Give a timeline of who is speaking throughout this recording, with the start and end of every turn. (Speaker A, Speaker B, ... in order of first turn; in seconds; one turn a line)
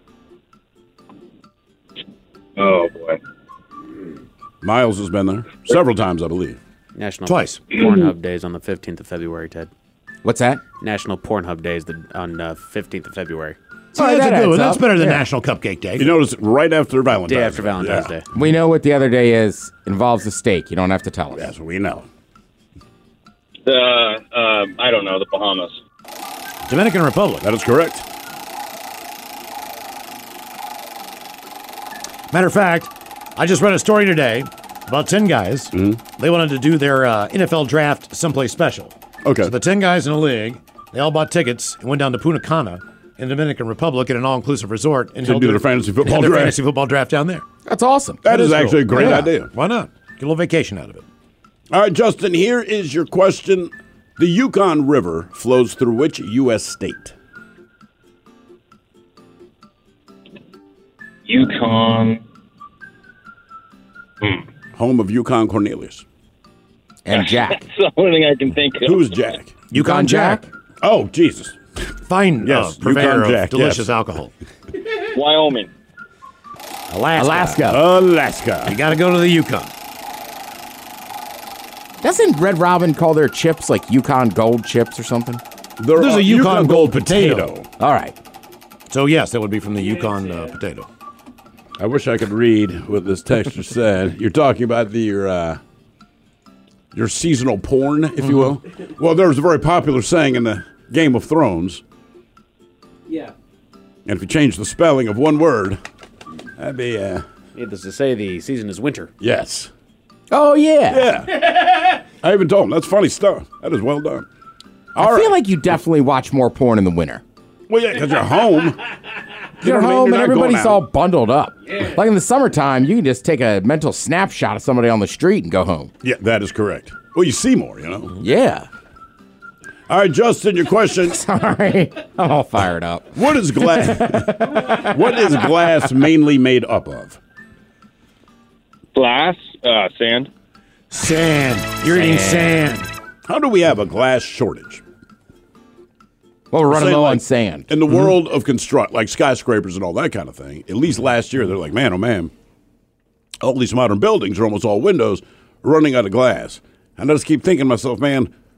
Speaker A: 2.6-3.2
Speaker B: 4.6-6.6
Speaker C: 7.0-9.7
Speaker D: 7.2-7.7
Speaker E: 10.2-10.6
Speaker C: 10.8-13.6
Speaker E: 13.9-15.2
Speaker D: 13.9-16.1
Speaker B: 16.0-18.2
Speaker C: 17.3-18.3
Speaker E: 18.3-21.5
Speaker B: 21.3-22.1
Speaker A: 23.7-25.8
Speaker D: 26.7-27.5
Speaker B: 27.4-28.1
Speaker D: 32.3-47.5
Speaker B: 35.8-36.0
Speaker B: 39.2-39.5
Speaker B: 45.2-46.6
Speaker E: 47.7-48.2
Speaker B: 48.2-49.5
Speaker D: 48.3-51.0
Speaker E: 49.0-49.2
Speaker B: 51.7-57.1
Speaker A: 61.3-62.2
Speaker B: 64.8-66.0
Speaker E: 67.0-67.7
Speaker A: 67.2-69.1
Speaker B: 68.8-69.6
Speaker E: 69.7-70.5
Speaker D: 69.7-70.5
Speaker B: 70.8-71.6
Speaker D: 72.1-74.3
Speaker B: 72.4-73.9
Speaker A: 75.1-75.7
Speaker D: 76.9-77.8
Speaker E: 77.2-77.8
Speaker B: 77.7-78.8
Speaker D: 78.7-79.7
Speaker E: 82.0-85.4
Speaker B: 85.8-87.7
Speaker D: 86.0-87.6
Speaker E: 87.8-88.1
Speaker D: 88.9-90.9
Speaker B: 91.8-95.6
Speaker B: 96.9-101.8
Speaker B: 104.1-105.8
Speaker B: 106.6-107.2
Speaker C: 107.5-109.1
Speaker B: 109.2-109.7
Speaker E: 110.3-111.1
Speaker B: 110.9-114.3
Speaker B: 115.0-115.4
Speaker E: 115.0-117.2
Speaker B: 117.7-118.8
Speaker B: 119.6-120.8
Speaker E: 119.6-125.9
Speaker B: 126.0-128.2
Speaker E: 128.2-128.7
Speaker B: 129.9-131.2
Speaker E: 131.1-135.9
Speaker B: 133.2-137.2
Speaker A: 138.9-140.3
Speaker D: 140.9-142.9
Speaker E: 141.9-142.6
Speaker B: 143.3-144.8
Speaker E: 146.5-147.7
Speaker B: 146.7-152.3
Speaker B: 153.4-158.3